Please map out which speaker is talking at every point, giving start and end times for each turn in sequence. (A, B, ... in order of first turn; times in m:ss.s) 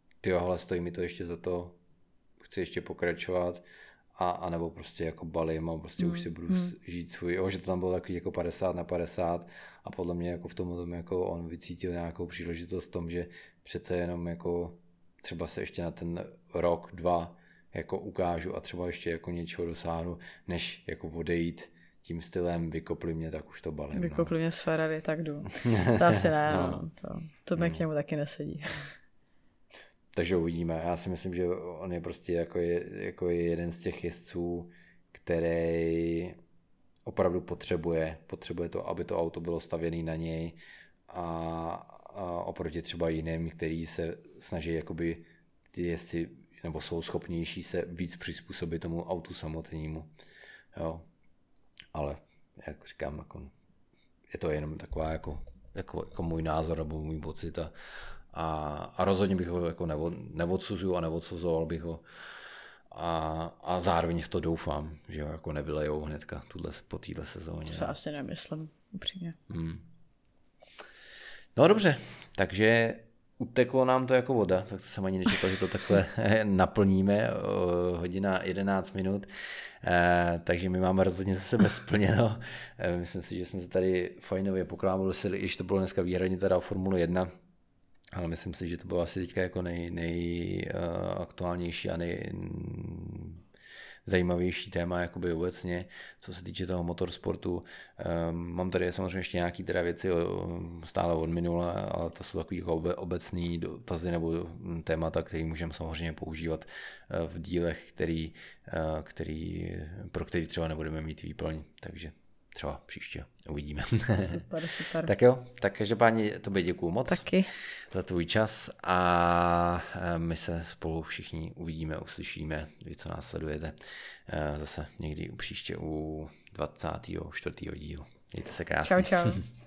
0:00.2-0:01.8 A
0:02.4-0:03.6 A
0:04.2-0:24.3 A
0:06.0-0:06.7 B
0:24.0-0:28.9 B
0:25.6-0:26.8 A
0:27.6-0:27.8 A
0:30.1-0:36.4 A
0:37.1-0:40.6 A
0:41.1-0:50.1 A
0:50.7-0:51.1 A
0:51.9-0:53.5 A
0:54.3-0:57.7 A
0:58.3-1:02.0 A
1:02.9-1:07.9 A
1:07.7-1:09.4 B
1:09.5-1:09.8 A
1:11.6-1:19.3 A
1:19.8-1:27.3 A
1:28.1-1:33.4 A
1:34.0-1:54.4 A
1:54.2-1:55.1 B
1:55.0-1:57.3 A
1:57.1-1:57.5 B
1:57.9-2:03.7 A
2:04.3-2:09.4 A
2:08.8-2:09.4 B